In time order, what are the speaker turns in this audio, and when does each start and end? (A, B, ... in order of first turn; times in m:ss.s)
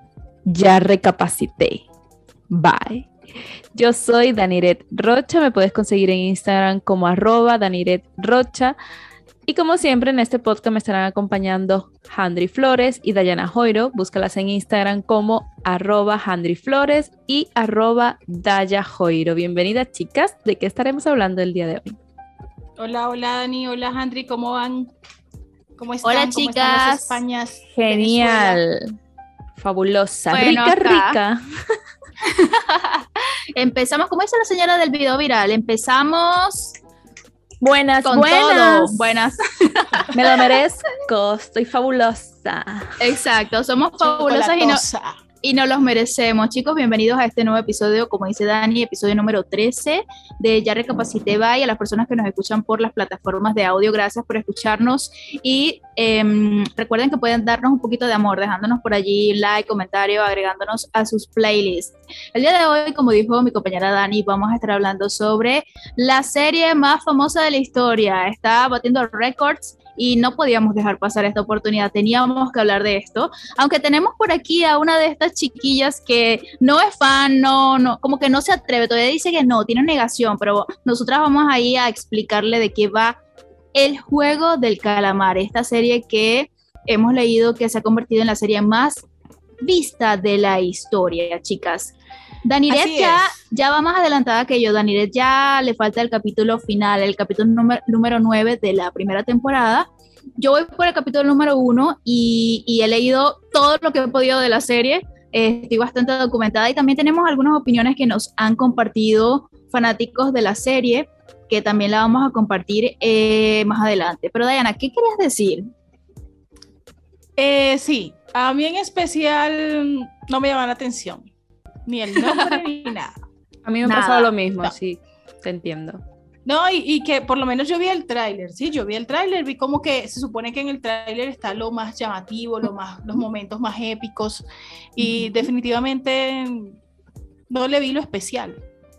0:00.5-0:01.9 A
0:02.5-0:03.1 A
0:03.7-0:08.8 A
0:09.5-0:22.0 A
0:22.8-0:24.9 B
0:25.8-0:28.6 B
0:26.0-0:27.2 C
0:27.7-0:28.9 A
0:29.6-0:31.4 A
0:30.3-0:31.2 C
0:32.2-0:36.8 C
0:37.6-0:39.1 A
0:38.0-0:40.5 C
0:40.1-0:43.0 A
0:43.0-0:44.8 C
0:44.0-0:45.2 B
0:45.4-1:23.2 C
1:23.7-1:29.0 C
1:29.6-1:31.9 C
1:32.4-1:39.9 C
1:32.7-1:33.4 B
1:40.4-1:55.7 C
1:57.4-2:01.3 B
2:01.9-2:03.2 B
2:02.2-2:02.6 C
2:03.7-2:06.0 A
2:03.8-2:04.3 C
2:06.5-2:14.5 B
2:15.0-2:16.8 B
2:15.0-2:15.5 C
2:17.5-2:18.6 B